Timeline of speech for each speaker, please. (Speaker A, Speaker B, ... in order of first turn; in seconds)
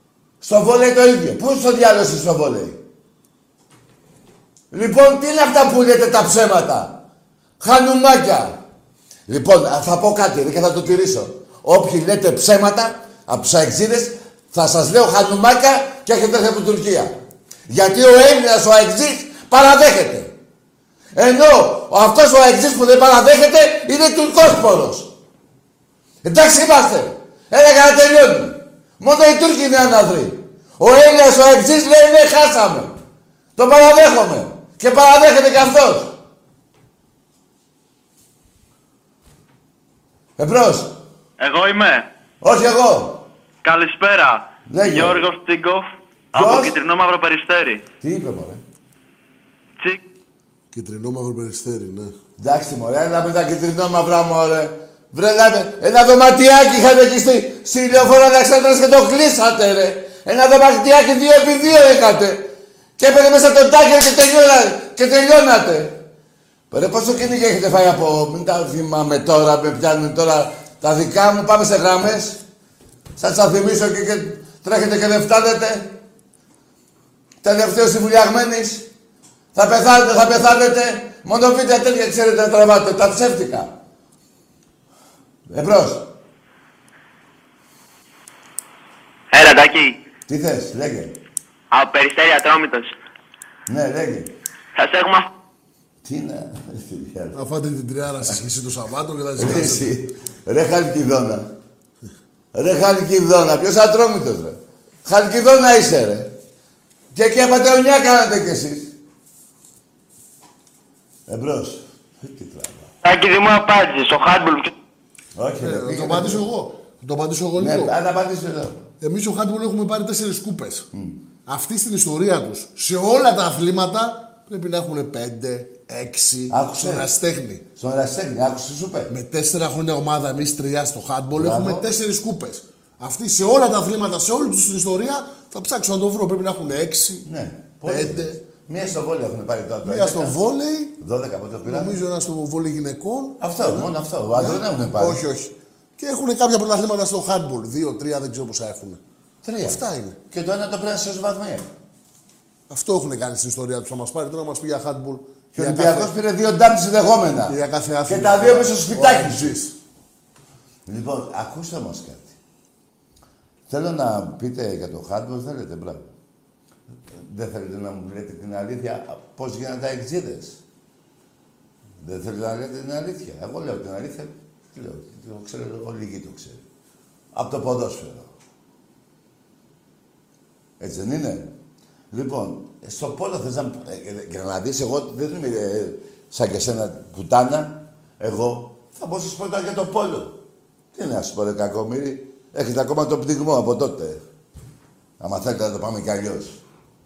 Speaker A: 0.4-2.8, 4.7-7.0, 7.6-8.6, 9.3-17.2, 17.7-20.4, 21.1-25.1, 26.2-33.0, 33.6-36.2, 40.4-41.0, 42.4-43.3, 44.7-45.3, 46.3-46.8, 48.0-48.6, 52.4-66.0, 66.7-72.4, 73.2-76.0, 77.4-78.9, 79.5-83.8, 85.5-86.1, 90.3-91.2, 93.7-94.3, 96.0-97.4, 99.4-101.5, 102.5-106.3, 107.1-109.0, 111.3-112.9, 115.3-116.5, 117.6-118.9, 120.9-121.2, 126.5-127.1, 127.8-129.1, 131.3-131.9, 137.2-140.4, 141.0-142.0, 143.4-145.2, 149.4-151.7, 155.5-159.6, 160.9-162.4, 163.7-166.1, 167.1-170.6, 172.0-176.6, 177.3-178.3, 180.8-181.5, 182.1-190.4, 190.9-194.2, 195.2-196.6
Speaker B: 41.4-42.1, 43.6-47.8
Speaker C: 50.7-52.1, 97.3-99.9, 115.6-117.9, 119.0-120.9, 121.5-127.6, 129.1-137.3, 137.9-138.4, 139.8-140.9, 141.7-149.0, 149.6-150.2, 152.7-156.1, 157.5-159.8
Speaker D: 89.3-90.0, 91.7-92.9, 94.8-95.2, 113.0-114.7